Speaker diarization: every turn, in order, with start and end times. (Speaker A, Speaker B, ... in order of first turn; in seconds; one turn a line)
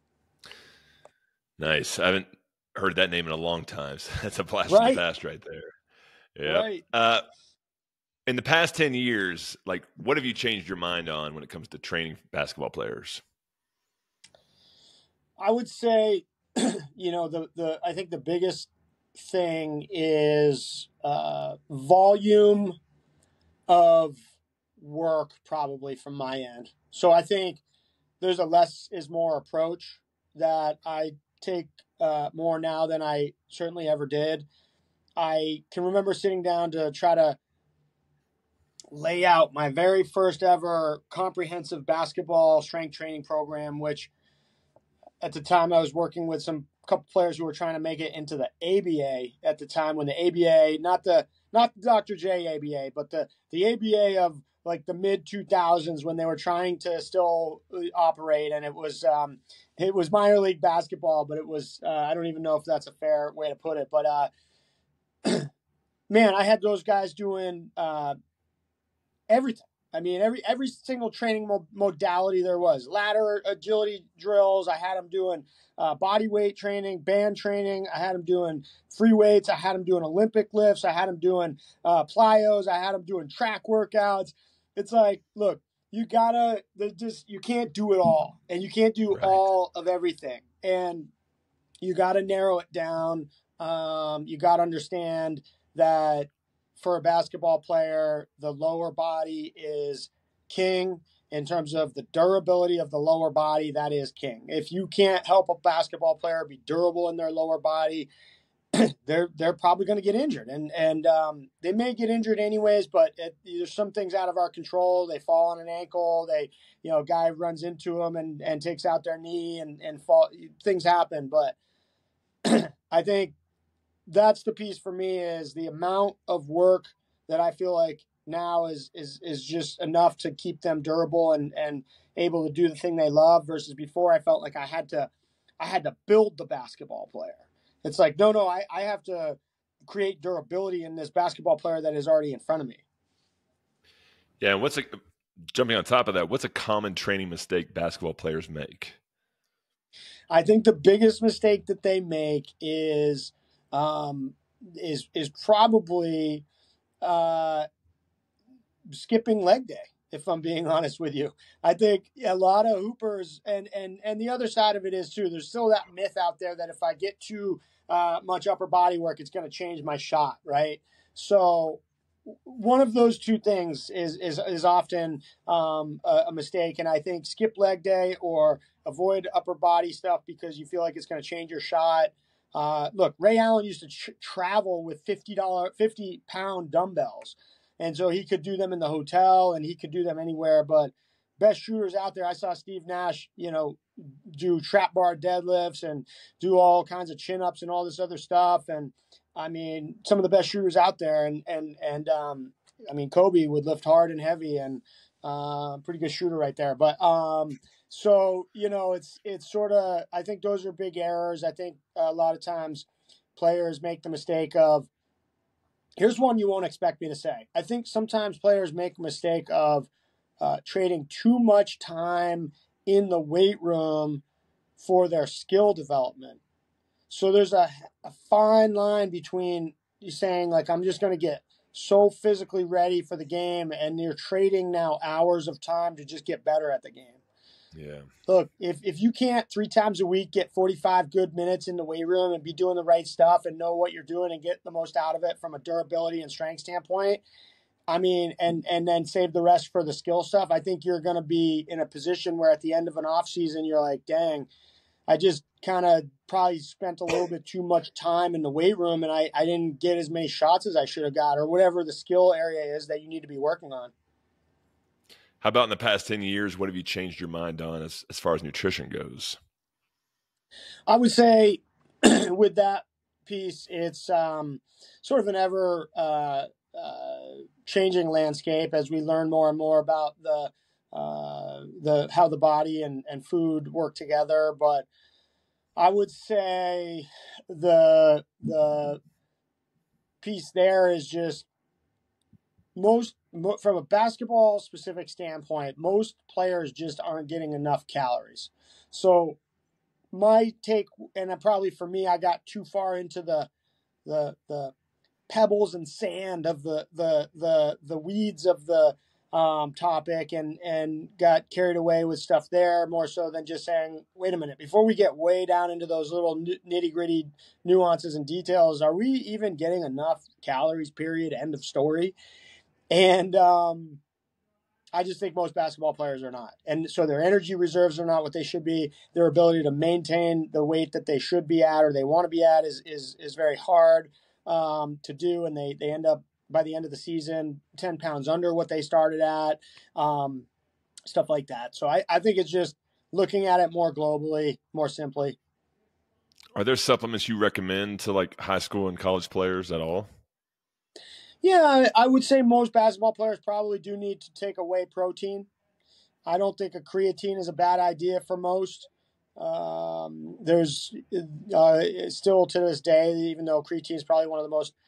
Speaker A: 1.6-5.7
Speaker B: 4.7-5.0
Speaker A: 6.3-7.2
Speaker B: 6.4-6.8
Speaker A: 8.3-13.2
Speaker B: 15.4-22.8
Speaker B: 23.7-24.2
Speaker B: 24.8-27.6
Speaker B: 28.2-34.5
Speaker B: 35.2-37.4
Speaker B: 38.9-44.1
Speaker B: 45.2-64.3
Speaker B: 66.1-68.2
Speaker B: 69.3-91.1
Speaker A: 89.1-89.4
Speaker B: 91.8-108.1
Speaker B: 108.7-121.5
Speaker B: 122.4-123.3
Speaker B: 124.1-142.8
Speaker A: 144.4-145.0
Speaker A: 145.5-149.0
Speaker B: 150.3-156.4
Speaker B: 157.0-157.7
Speaker B: 158.9-214.9
Speaker B: 216.0-219.9
Speaker B: 220.4-224.2
Speaker B: 224.8-226.4
Speaker B: 227.1-237.2
Speaker A: 237.7-238.1
Speaker B: 238.3-247.2
Speaker B: 247.9-254.5
Speaker B: 255.1-263.9
Speaker A: 265.4-269.4
Speaker B: 270.9-284.9
Speaker B: 285.8-289.0
Speaker B: 290.2-291.4
Speaker B: 292.8-299.4
Speaker B: 300.1-303.5
Speaker B: 304.1-304.7
Speaker B: 305.3-322.1
Speaker B: 322.9-324.0
Speaker B: 324.9-340.5
Speaker B: 341.1-345.4
Speaker A: 346.5-350.1
Speaker B: 351.4-355.5
Speaker B: 356.2-364.7